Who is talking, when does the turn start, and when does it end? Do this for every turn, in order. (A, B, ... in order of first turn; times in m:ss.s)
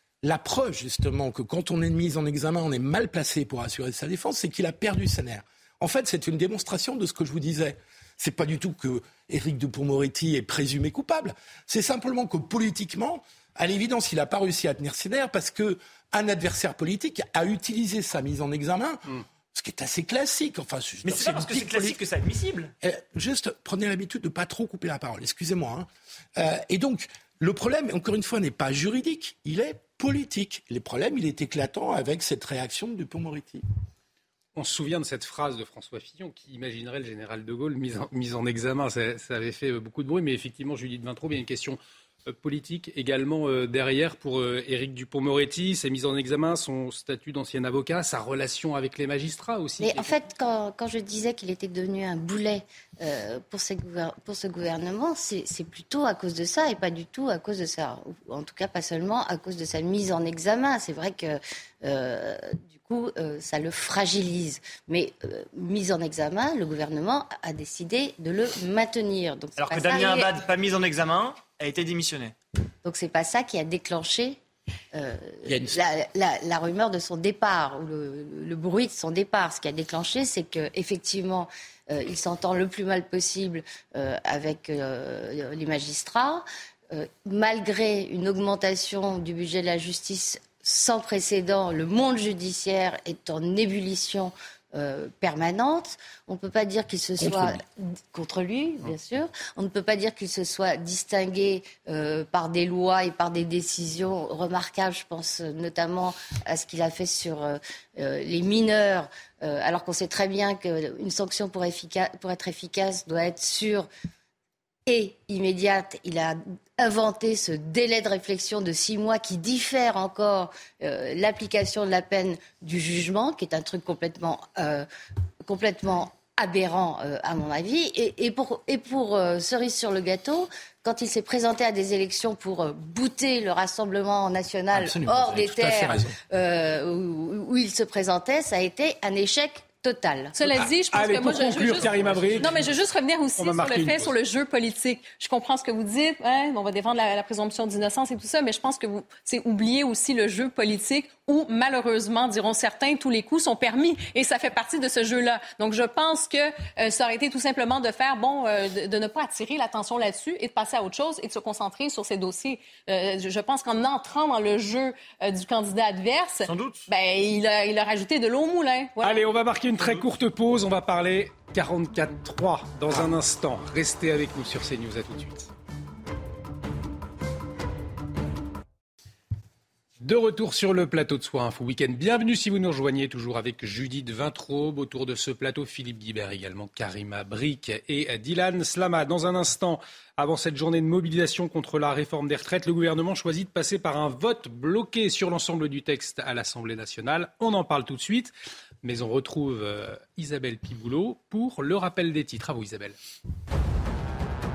0:00.2-0:22.0 A
0:21.0-0:22.7 B
0:22.8-0:33.6 A
0:34.6-0:50.2 C
0:49.8-1:10.4 D
1:09.6-1:12.3 B
1:12.8-1:14.4 D
1:14.9-1:53.9 D
1:15.4-1:15.8 A
1:37.2-1:37.6 A
1:54.9-2:04.9 D
2:05.4-2:20.4 D
2:14.7-2:16.1 A
2:20.3-2:49.2 E
2:20.9-2:22.8 C
2:21.9-2:22.4 A
2:23.4-2:24.1 C
2:49.0-2:55.5 C
3:00.0-3:18.3 C
3:18.8-3:23.0 C